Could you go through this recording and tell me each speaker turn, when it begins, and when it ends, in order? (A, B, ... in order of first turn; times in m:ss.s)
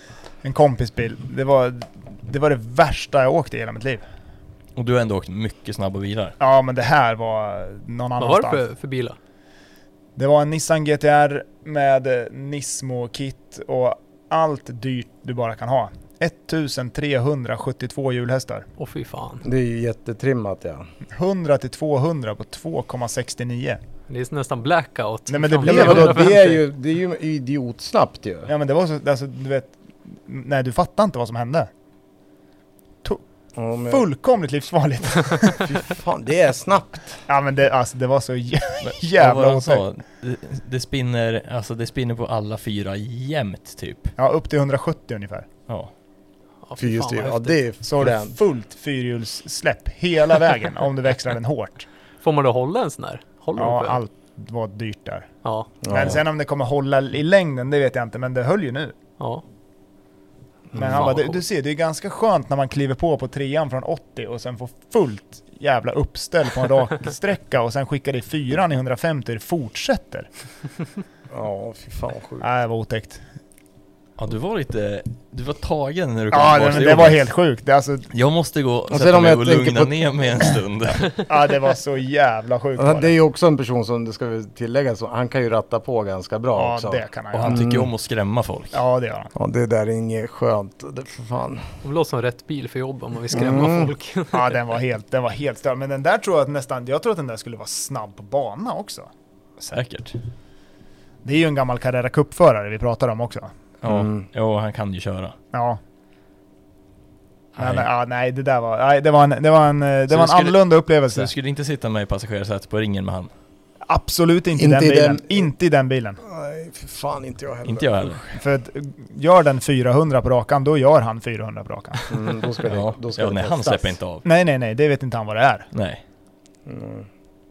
0:00.4-0:04.0 A
0:04.8-0:06.4 B
0:06.4-0:08.6 A
0:08.2-0:09.2 C
0:10.2-0:18.6 A
0:18.8-0:19.5 C
0:19.4-0:20.9 D
0:21.1-0:23.8 A
0:24.1-0:26.6 C
0:25.3-0:26.2 A
0:25.6-0:28.5 D
0:28.5-0:31.7 A
0:33.6-0:34.0 D
0:33.9-0:35.7 A
0:35.6-0:37.2 D
0:37.3-0:39.8 A
0:38.8-0:44.1 B
0:44.2-0:45.4 A
0:46.7-0:47.6 C
0:46.8-0:48.4 D
0:47.8-0:51.8 A
0:52.2-0:54.0 C
0:53.6-0:55.3 A
0:55.8-0:56.2 D
0:55.9-0:58.9 A
1:00.7-1:01.1 D
1:00.7-1:10.3 A
1:00.9-1:01.4 C
1:11.3-1:12.5 D
1:12.4-1:13.2 A
1:14.2-1:17.3 B
1:16.3-1:18.1 A
1:18.1-1:21.1 B
1:18.9-1:19.9 D
1:21.2-1:23.1 A
1:22.8-1:27.9 D
1:26.6-1:27.6 A
1:27.3-1:28.8 B
1:28.7-1:29.3 A
1:29.3-1:31.6 D
1:31.8-1:34.6 C
1:33.3-1:33.9 D
1:34.3-1:39.1 A
1:39.6-1:40.2 B
1:41.2-1:43.5 A
1:43.8-1:45.3 B
1:43.8-1:44.2 D
1:45.5-1:45.8 A
1:47.5-1:47.9 B
1:47.6-1:51.3 A
1:50.1-1:53.3 B
1:53.9-1:56.2 A
1:54.6-1:55.5 D
1:56.2-1:57.9 D
1:57.6-1:58.4 B
1:58.4-2:02.1 A
2:02.1-2:04.0 D
2:02.6-2:04.2 B
2:04.2-2:05.7 A
2:05.7-2:06.0 B
2:06.6-2:07.1 D